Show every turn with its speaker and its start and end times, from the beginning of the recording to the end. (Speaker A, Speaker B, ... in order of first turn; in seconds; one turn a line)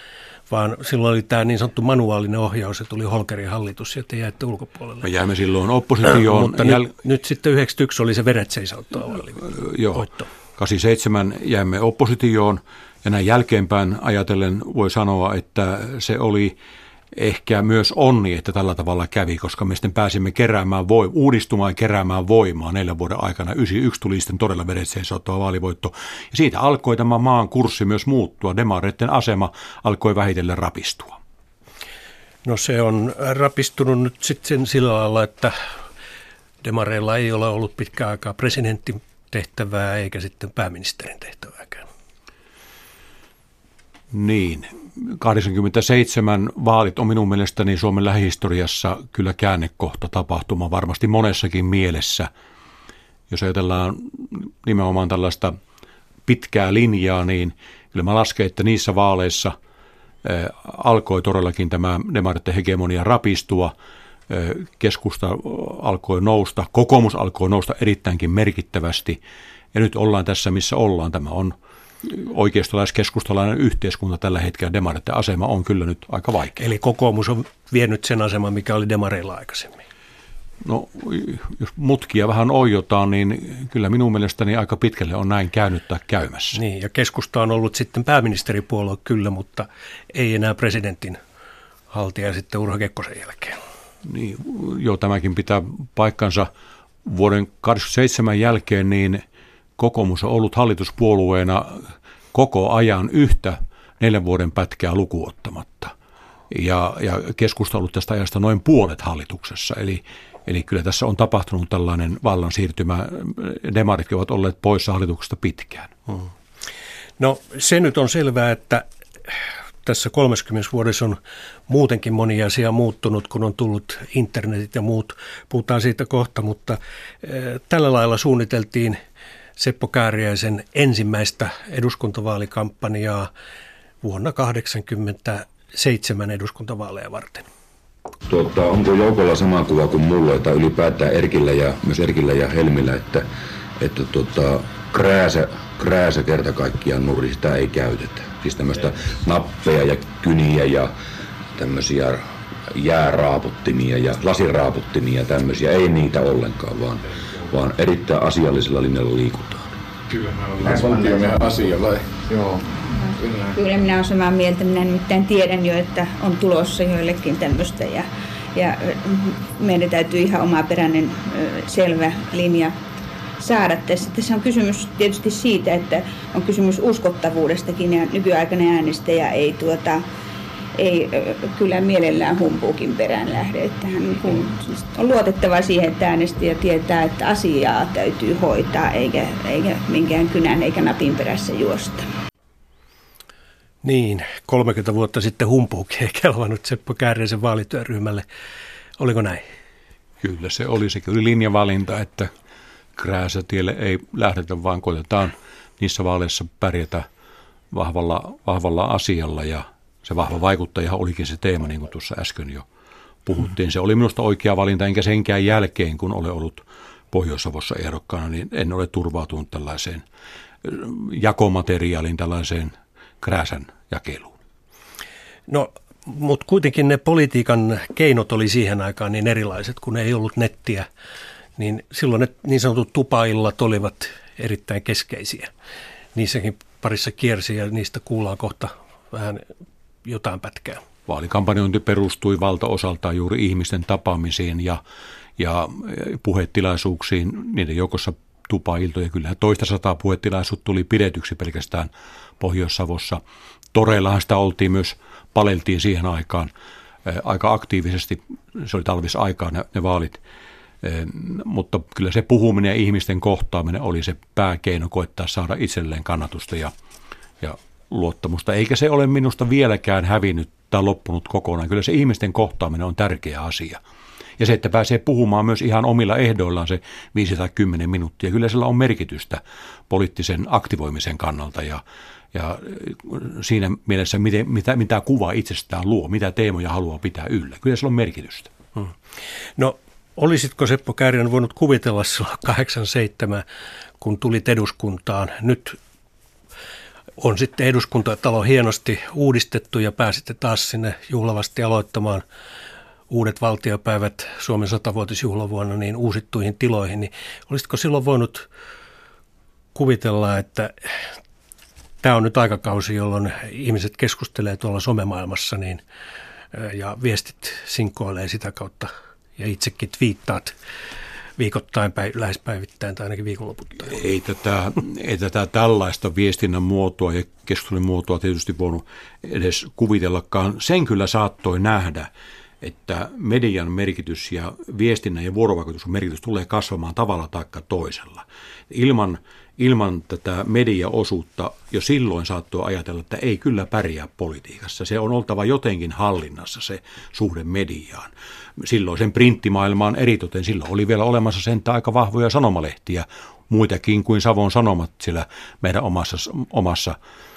Speaker A: 0.5-5.1
Speaker B: 5.0-6.9
Speaker A: 6.0-10.2
Speaker B: 9.4-16.6
Speaker B: 17.1-31.2
Speaker A: 32.5-35.5
Speaker A: 36.6-41.9
Speaker B: 44.1-52.3
Speaker B: 53.3-55.5
Speaker B: 56.3-59.5
Speaker B: 60.2-63.7
Speaker B: 64.3-69.2
Speaker B: 69.7-76.6
Speaker A: 76.6-79.8
Speaker B: 80.6-86.6
Speaker A: 86.5-91.2
Speaker A: 91.9-93.6
Speaker B: 94.0-96.5
Speaker B: 97.0-99.2
Speaker B: 99.8-105.9
Speaker B: 106.5-115.9
Speaker A: 117.2-129.0
Speaker A: 129.6-133.3
Speaker A: 134.0-137.4
Speaker C: 138.3-143.3
Speaker C: 143.8-150.9
Speaker C: 151.6-159.7
Speaker D: 160.1-162.6
Speaker E: 162.9-172.7
Speaker D: 163.2-163.5
Speaker E: 173.4-180.0
Speaker E: 180.8-192.1
Speaker A: 193.8-198.2
Speaker A: 199.0-199.4
Speaker B: 200.2-202.3
Speaker B: 203.0-207.1
Speaker B: 207.7-212.7
Speaker B: 213.3-220.0
Speaker B: 220.6-224.3
Speaker A: 225.5-230.9
Speaker A: 231.6-235.5
Speaker A: 236.2-239.5
Speaker A: 240.1-240.8
Speaker B: 241.1-244.8
Speaker B: 245.4-253.2
Speaker B: 253.7-256.5
Speaker B: 257.1-260.2
Speaker B: 260.8-266.7
Speaker B: 267.4-273.8
Speaker B: 274.4-281.8
Speaker B: 282.3-288.5
Speaker A: 289.6-293.4
Speaker A: 294.0-295.8
Speaker A: 297.2-302.2
Speaker A: 303.1-308.5
Speaker A: 309.8-310.9
Speaker A: 312.0-315.8
Speaker A: 316.5-320.5
Speaker A: 321.4-324.0
Speaker B: 323.9-332.1
Speaker B: 332.6-357.0